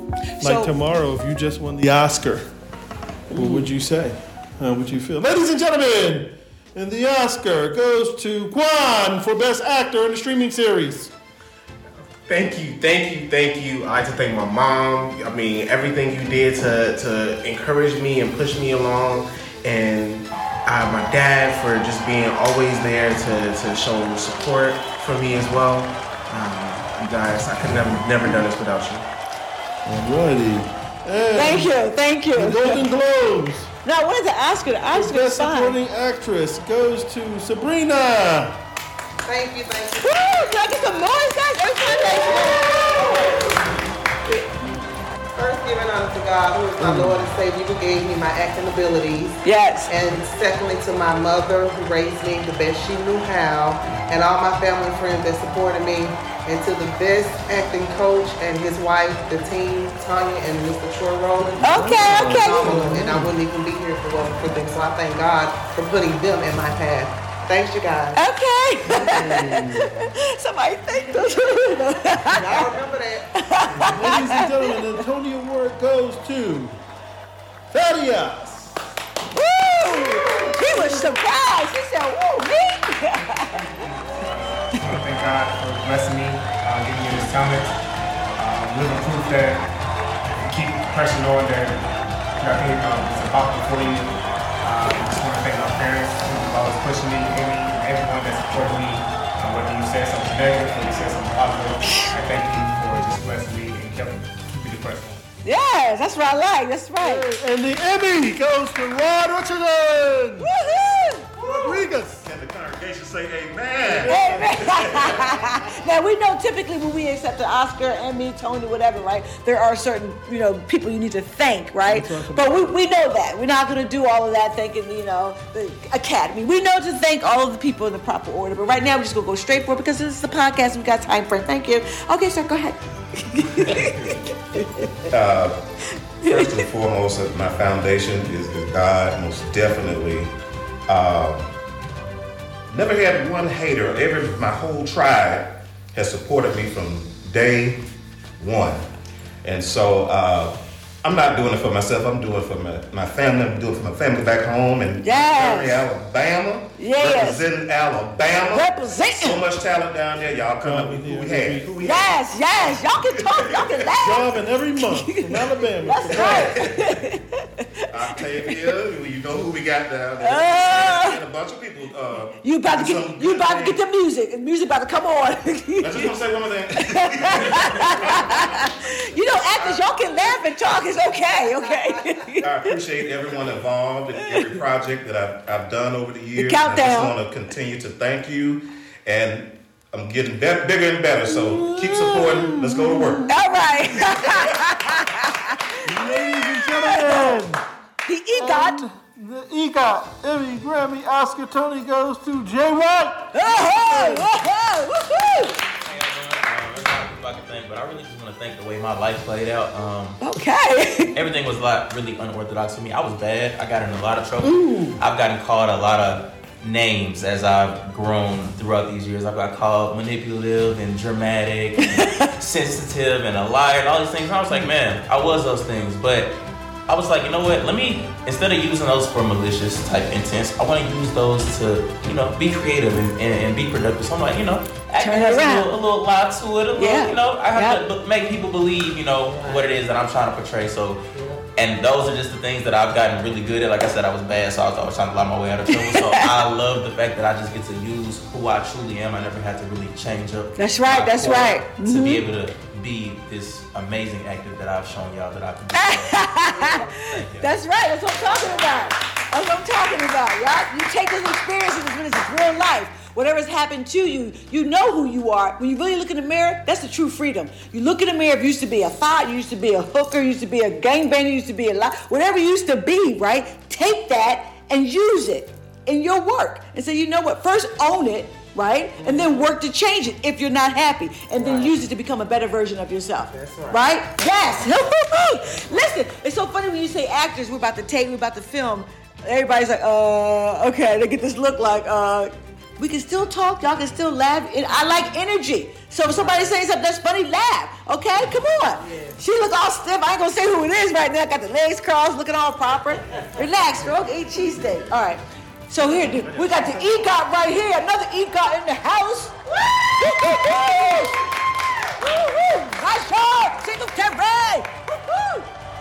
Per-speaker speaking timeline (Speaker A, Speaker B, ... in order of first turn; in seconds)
Speaker A: 0.4-0.8, 3.3-3.7, 31.3-32.9, 33.9-35.8, 40.0-43.5, 49.4-49.9, 61.6-62.9, 68.2-72.7, 73.3-75.0, 79.3-83.6, 84.7-85.0, 105.4-107.3, 110.4-111.3, 114.0-135.0, 136.2-136.7, 155.0-155.8, 156.8-157.5, 158.5-159.4, 161.8-168.7, 170.2-171.2, 172.4-176.2, 176.7-182.8, 184.2-184.6, 186.4-187.2, 191.3-197.5, 198.1-198.9, 203.3-205.6, 210.2-211.1, 214.4-215.0, 221.9-222.3, 235.0-235.7, 236.8-237.8, 245.7-246.4, 250.6-252.2, 255.7-311.2, 311.9-315.5
Speaker B: 0.4-2.5, 3.3-11.1, 29.9-31.7, 32.3-33.7, 34.9-38.6, 46.8-47.1, 61.6-63.3, 69.0-70.0, 73.7-76.8, 77.7-78.8, 107.0-110.5, 111.4-112.2, 113.8-115.9, 121.8-122.7, 160.5-161.9, 163.9-166.7, 192.2-193.1, 195.8-197.6, 198.4-204.3, 306.0-306.7
Speaker C: 12.3-29.0
Speaker D: 39.2-41.2, 42.1-43.4, 45.4-68.2, 72.3-73.3, 181.4-182.2, 256.5-256.9, 258.1-258.9, 279.0-279.5, 281.3-281.8, 283.3-283.9, 296.1-296.5, 298.8-299.1
Speaker E: 83.2-87.8, 88.4-89.6, 90.3-91.8, 92.4-105.2
Speaker F: 111.4-115.4, 135.1-135.6, 136.2-140.3, 140.9-141.5, 142.7-147.8, 148.4-148.8, 149.4-158.7, 159.2-163.9, 165.9-167.0, 167.9-173.8, 175.8-178.7, 179.5-179.9, 182.4-193.3, 194.1-194.5
Speaker G: 205.8-210.2, 211.1-226.3, 226.9-241.0, 241.6-257.5